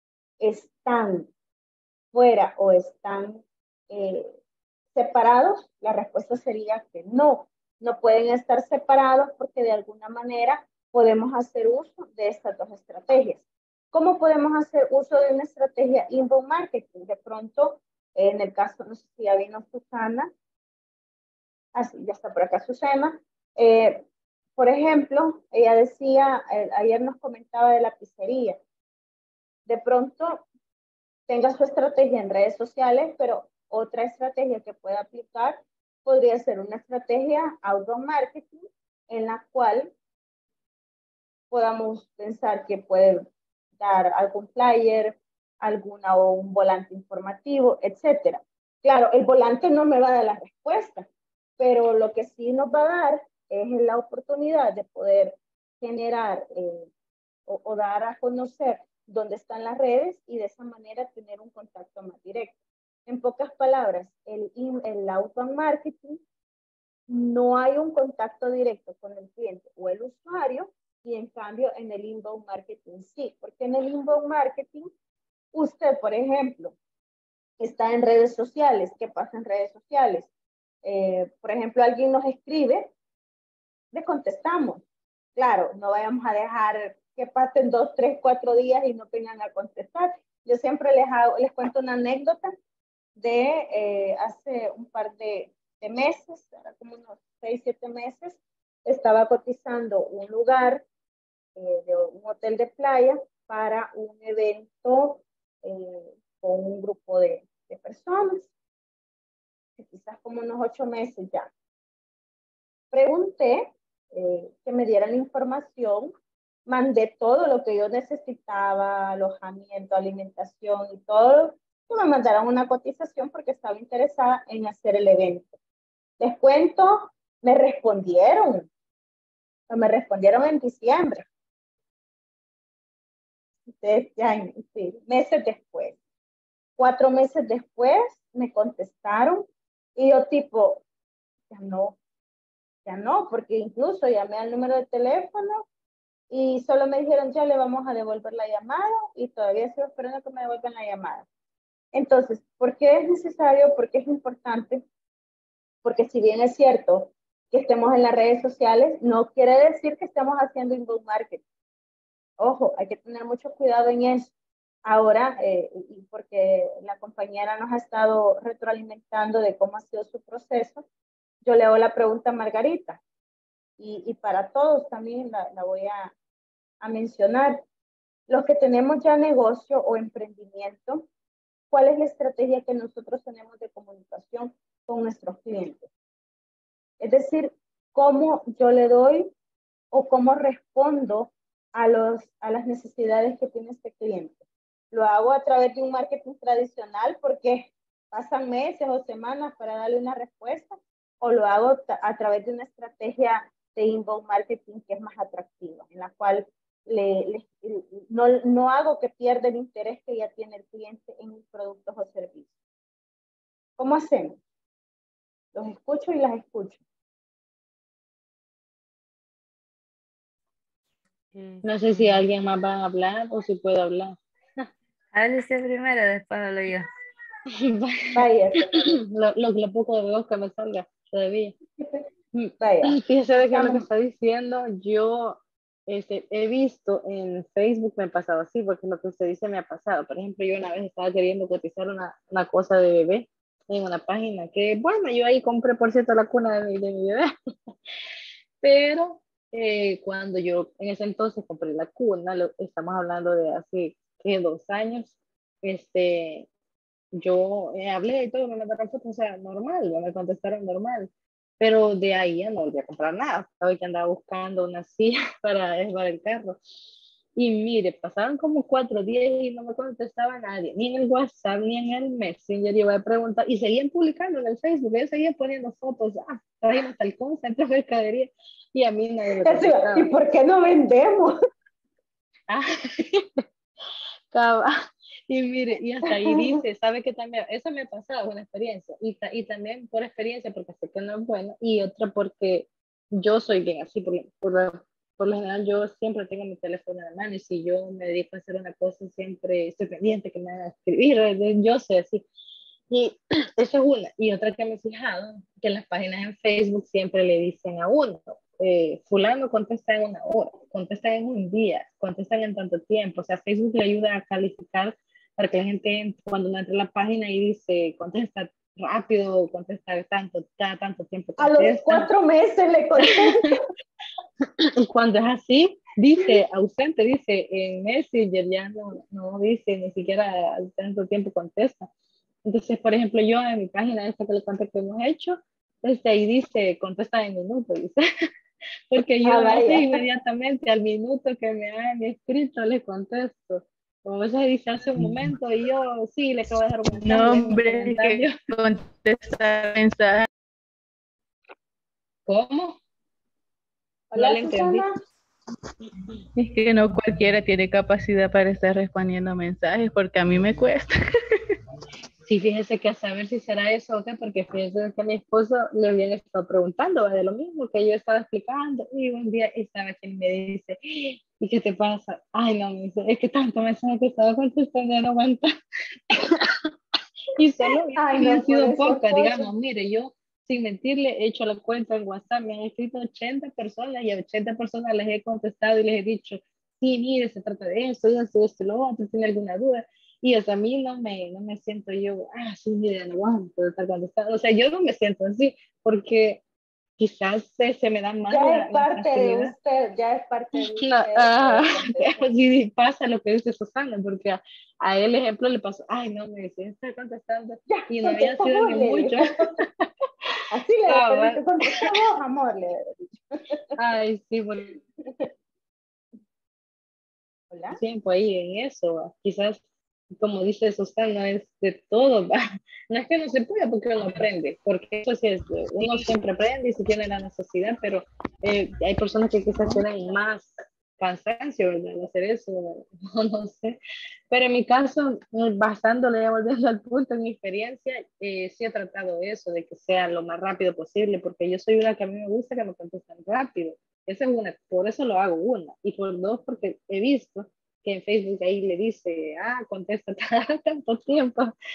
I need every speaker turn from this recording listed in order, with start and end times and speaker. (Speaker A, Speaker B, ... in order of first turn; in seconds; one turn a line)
Speaker A: 0.4-1.3
Speaker A: 2.1-4.3
Speaker A: 4.9-20.3
Speaker A: 21.7-24.0
Speaker A: 24.6-28.6
Speaker A: 29.7-30.4
Speaker A: 31.3-39.9
Speaker A: 41.5-43.2
Speaker A: 43.8-51.0
Speaker A: 51.6-56.9
Speaker A: 57.5-62.5
Speaker A: 63.1-66.2
Speaker A: 67.1-74.9
Speaker A: 75.5-76.8
Speaker A: 77.6-80.3
Speaker A: 80.8-82.9
Speaker A: 83.9-84.8
Speaker A: 85.3-92.5
Speaker A: 93.2-100.8
Speaker A: 101.6-108.5
Speaker A: 109.8-111.5
Speaker A: 112.9-116.1
Speaker A: 116.7-125.5
Speaker A: 126.2-128.7
Speaker A: 129.7-131.2
Speaker A: 133.8-136.0
Speaker A: 136.8-139.5
Speaker A: 140.0-140.8
Speaker A: 141.5-142.0
Speaker A: 142.8-145.7
Speaker A: 146.3-151.2
Speaker A: 151.9-154.8
Speaker A: 155.8-161.4
Speaker A: 162.4-164.3
Speaker A: 164.8-170.8
Speaker A: 171.4-173.0
Speaker A: 173.8-176.1
Speaker A: 176.8-177.6
Speaker A: 178.3-181.0
Speaker A: 181.7-185.9
Speaker A: 187.0-189.3
Speaker A: 189.9-194.4
Speaker A: 194.9-212.5
Speaker A: 213.8-214.4
Speaker A: 215.5-216.8
Speaker B: 221.4-221.6
Speaker C: 221.6-224.6
Speaker B: 225.1-226.9
Speaker C: 227.6-231.6
Speaker A: 228.1-229.0
Speaker A: 232.3-233.8
Speaker C: 232.9-247.7
Speaker C: 248.6-256.5
Speaker C: 257.2-261.1
Speaker C: 261.6-266.6
Speaker C: 267.4-280.1
Speaker A: 279.4-281.3
Speaker C: 282.5-283.4
Speaker C: 284.3-284.7
Speaker C: 285.3-302.2
Speaker A: 286.2-286.5
Speaker C: 302.9-322.1
Speaker A: 321.4-323.5
Speaker C: 323.1-323.5
Speaker C: 324.6-331.9
Speaker C: 332.4-338.0
Speaker C: 338.9-348.3
Speaker A: 339.2-340.0
Speaker D: 347.0-350.3
Speaker C: 352.3-352.8
Speaker A: 354.1-354.9
Speaker C: 354.1-354.8
Speaker D: 356.4-360.9
Speaker C: 362.2-375.5
Speaker C: 376.1-376.7
Speaker C: 377.4-396.4
Speaker A: 378.0-379.5
Speaker C: 397.0-399.5
Speaker A: 398.3-402.2
Speaker C: 400.8-409.9
Speaker A: 407.7-409.2
Speaker A: 410.5-413.6
Speaker C: 410.9-411.9
Speaker C: 413.8-414.8
Speaker A: 417.5-417.8
Speaker C: 417.8-419.6
Speaker C: 420.1-422.4
Speaker C: 422.9-433.8
Speaker A: 425.9-426.2
Speaker C: 434.3-451.5